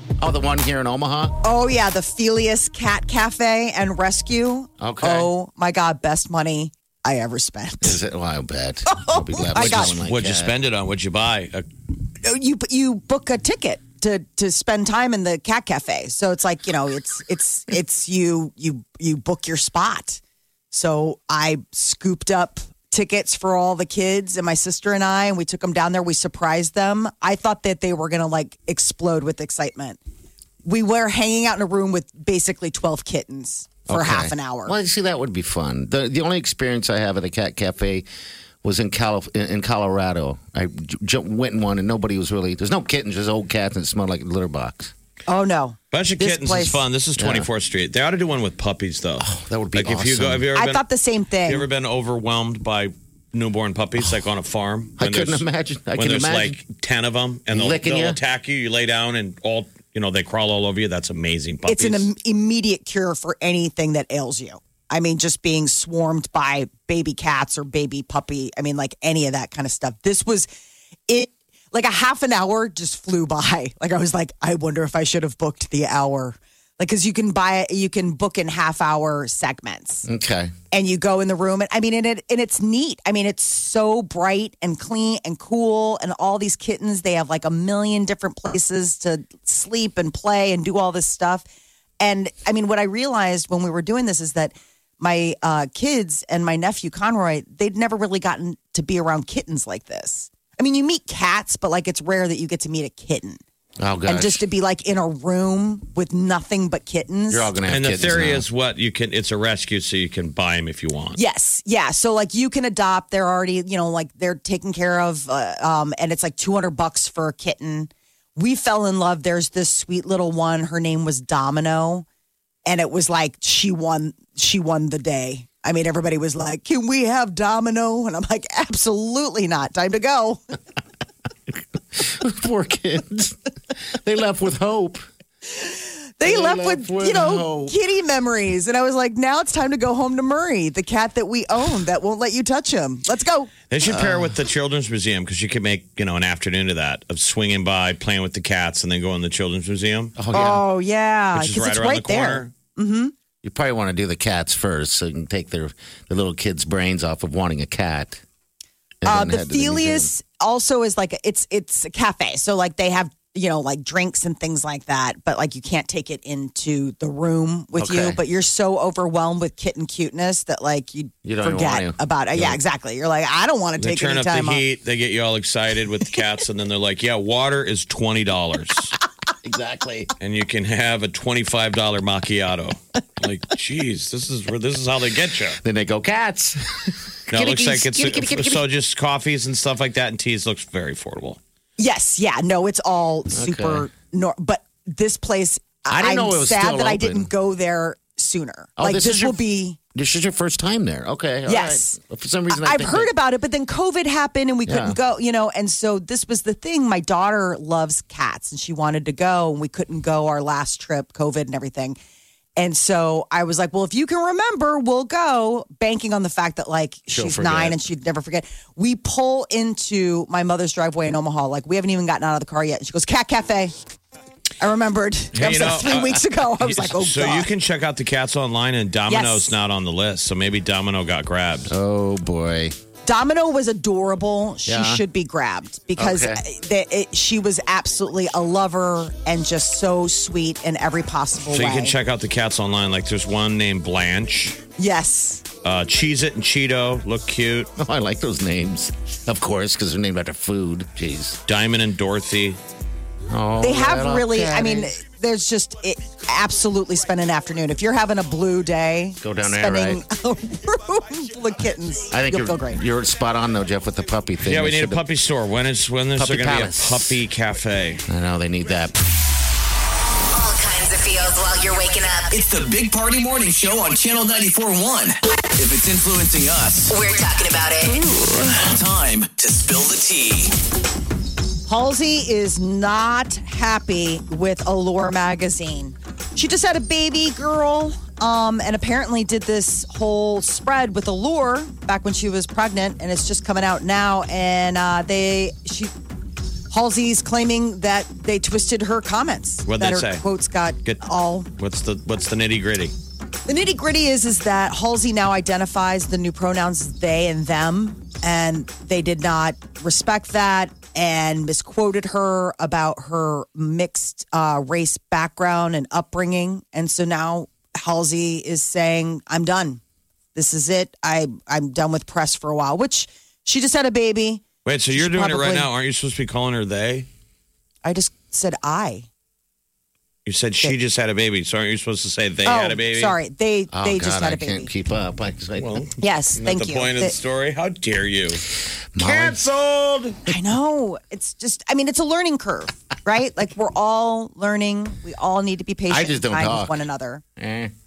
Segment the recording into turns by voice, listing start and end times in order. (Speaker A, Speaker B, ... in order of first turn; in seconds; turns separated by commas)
Speaker A: 0.2-1.3, Speaker B: 1.4-8.0, Speaker A: 4.8-5.3, Speaker A: 7.8-10.5, Speaker B: 8.9-9.9, Speaker C: 9.5-11.6, Speaker B: 12.2-20.2, Speaker B: 20.7-30.0, Speaker B: 30.6-34.7, Speaker A: 33.9-38.0, Speaker A: 38.6-44.9, Speaker B: 45.3-46.8, Speaker C: 45.9-50.8, Speaker A: 47.2-47.5, Speaker A: 49.2-50.5, Speaker B: 50.5-51.6, Speaker C: 51.5-55.4, Speaker A: 55.0-56.6, Speaker C: 55.9-62.1, Speaker A: 57.5-58.2, Speaker B: 61.7-70.5, Speaker B: 71.1-80.1, Speaker A: 80.0-80.5, Speaker B: 80.7-91.4, Speaker B: 92.0-103.4, Speaker A: 103.8-104.4, Speaker B: 104.0-107.5, Speaker A: 107.3-108.4, Speaker C: 107.7-111.2, Speaker B: 111.1-122.0, Speaker B: 122.7-130.4, Speaker A: 131.5-133.4, Speaker A: 133.9-135.0, Speaker B: 135.6-143.5, Speaker A: 136.2-137.7, Speaker C: 143.7-150.2, Speaker A: 143.8-144.4, Speaker A: 150.2-150.6, Speaker B: 150.3-153.1, Speaker C: 151.3-152.5, Speaker A: 153.4-158.2, Speaker A: 159.0-160.1, Speaker B: 159.1-174.6, Speaker A: 167.8-168.2, Speaker A: 171.2-172.6, Speaker C: 173.8-178.9, Speaker A: 179.4-180.1, Speaker C: 180.2-185.6, Speaker A: 185.6-188.6, Speaker C: 187.3-191.4, Speaker B: 191.8-199.8, Speaker A: 193.3-193.9, Speaker A: 195.9-197.3, Speaker A: 198.8-199.4, Speaker A: 199.9-203.1, Speaker B: 201.5-202.0, Speaker B: 202.5-212.0, Speaker A: 204.7-205.0, Speaker B: 212.6-223.7, Speaker A: 217.1-217.8, Speaker B: 224.6-227.5, Speaker C: 225.3-231.7, Speaker B: 229.1-229.5, Speaker A: 231.7-232.7, Speaker B: 233.0-241.9, Speaker A: 234.7-235.0, Speaker A: 235.9-236.4, Speaker C: 241.5-244.6, Speaker B: 244.8-245.4, Speaker C: 245.6-247.7, Speaker A: 247.8-251.4, Speaker C: 251.5-252.6, Speaker A: 253.3-254.9, Speaker B: 253.6-262.8, Speaker A: 259.2-260.0, Speaker A: 262.1-265.0, Speaker C: 264.4-268.0, Speaker A: 266.1-267.2, Speaker A: 268.1-269.0, Speaker D: 270.3-272.3, Speaker E: 272.3-276.9, Speaker D: 276.9-278.0, Speaker E: 278.4-280.5, Speaker B: 281.7-295.9, Speaker B: 296.7-301.5, Speaker C: 299.7-300.2, Speaker C: 301.6-302.9, Speaker B: 303.5-319.8, Speaker B: 320.3-325.7, Speaker C: 324.6-327.1, Speaker B: 327.8-329.1, Speaker C: 330.2-333.1, Speaker B: 332.4-334.7, Speaker A: 333.7-335.8, Speaker C: 335.6-338.4, Speaker B: 336.0-337.1, Speaker A: 338.9-339.4, Speaker C: 339.0-340.2, Speaker B: 340.2-347.2, Speaker A: 345.9-346.8, Speaker A: 347.4-347.7